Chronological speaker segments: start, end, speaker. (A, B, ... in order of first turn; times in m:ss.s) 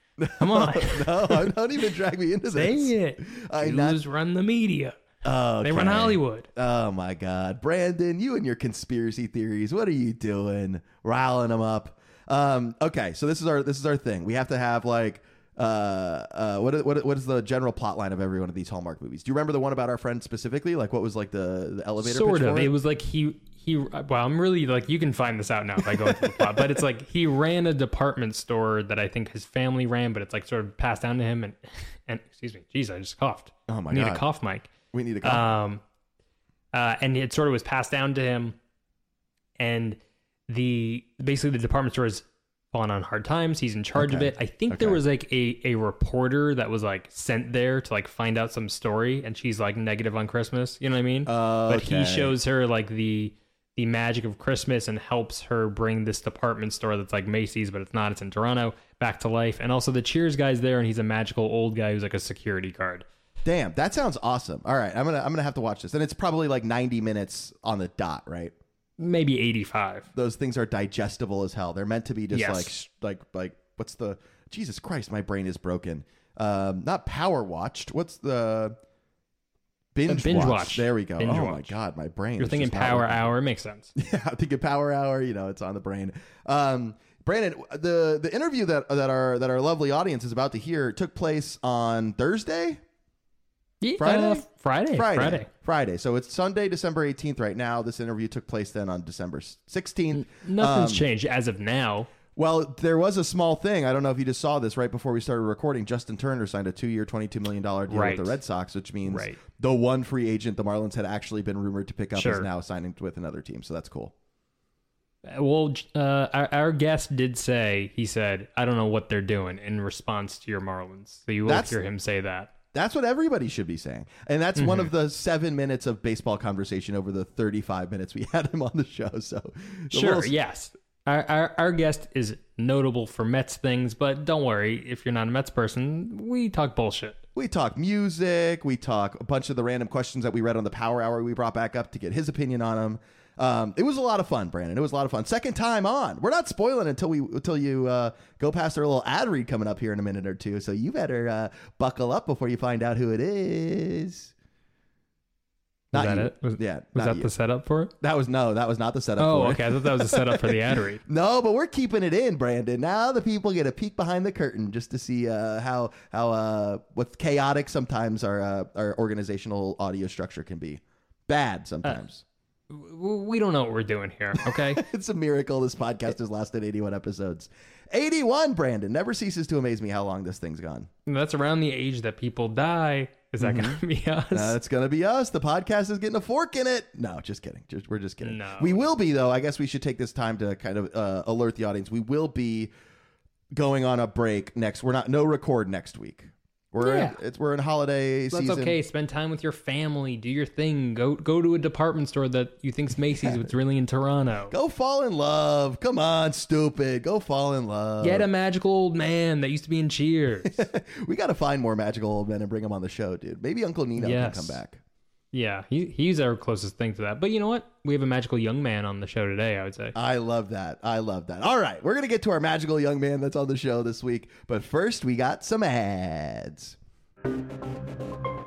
0:00.2-0:04.0 A
0:00.4-0:01.5 B
0:02.5-0:05.0 B
0:05.2-0:22.8 A
0:05.6-0:06.5 B
0:22.0-0:34.7 B
0:25.8-0:26.5 A
0:33.7-0:34.2 A
0:34.9-0:35.5 A
0:35.2-0:35.8 B
0:36.7-0:38.6 B
0:39.6-0:40.0 B
0:40.5-1:03.1 B
0:44.0-0:45.0 A
0:51.3-0:52.4 A
1:03.4-1:08.5 A
1:09.0-1:10.1 B
1:10.1-1:18.8 A
1:12.3-1:12.8 B
1:19.9-1:23.3 A
1:20.1-1:21.8 B
1:22.4-1:23.9 B
1:24.0-1:32.8 A
1:33.8-1:35.5 B
1:34.0-1:41.0 A
1:40.1-1:42.1 B
1:42.4-1:54.1 A
1:47.9-1:48.4 B
1:49.0-1:49.4 B
1:52.2-1:52.5 B
1:55.3-2:02.5 B
2:01.5-2:01.8 A
2:02.7-2:10.3 A
2:04.6-2:04.9 B
2:09.9-2:17.2 B
2:17.4-2:34.3 A
2:35.9-2:37.3 A
2:35.9-2:37.9 B
2:38.0-2:52.2 A
2:39.2-2:41.0 B
2:52.7-2:54.8 B
2:54.4-3:00.9 A
3:01.1-3:04.6 B
3:03.4-3:03.8 A
3:04.3-3:12.7 A
3:08.2-3:08.9 B
3:13.5-3:18.8 A
3:16.8-3:17.2 B
3:18.3-3:24.6 B
3:24.5-3:28.3 A
3:28.0-3:30.6 B
3:30.5-3:34.8 A
3:34.0-3:34.6 B
3:35.3-3:40.0 B
3:40.0-3:46.8 A